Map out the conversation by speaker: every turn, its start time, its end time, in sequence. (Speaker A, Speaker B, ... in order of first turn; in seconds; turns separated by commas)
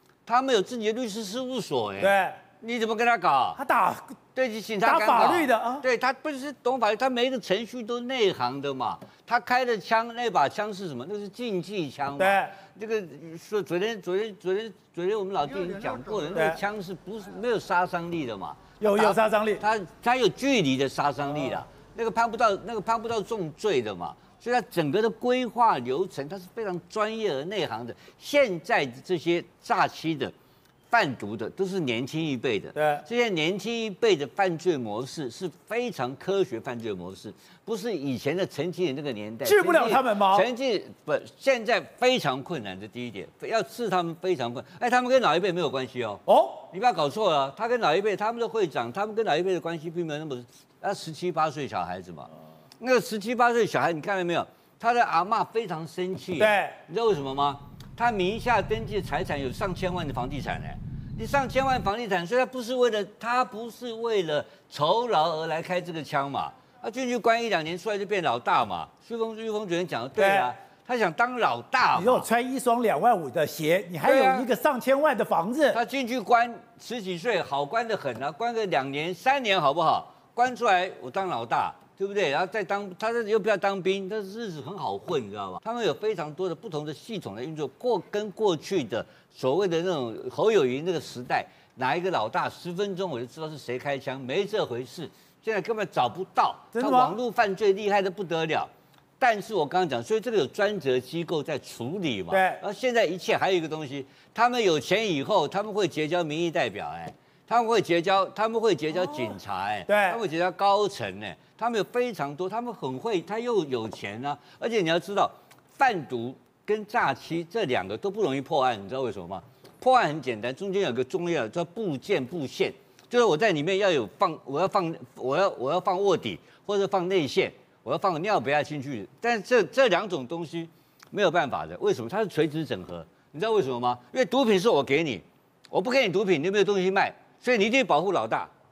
Speaker A: 0.2-3.6, Speaker B: 2.0-2.4, Speaker B: 3.5-4.2, Speaker A: 4.3-30.3, Speaker B: 4.8-5.8, Speaker B: 12.2-12.5, Speaker B: 16.3-16.6, Speaker B: 18.8-19.6, Speaker A: 30.9-72.3, Speaker B: 32.7-33.0, Speaker B: 39.4-40.5, Speaker B: 46.2-46.7, Speaker B: 56.4-56.8, Speaker B: 70.2-70.5, Speaker B: 71.9-75.8, Speaker A: 74.0-74.5, Speaker A: 75.7-138.5, Speaker B: 96.7-97.2, Speaker B: 102.3-102.6, Speaker B: 109.9-110.2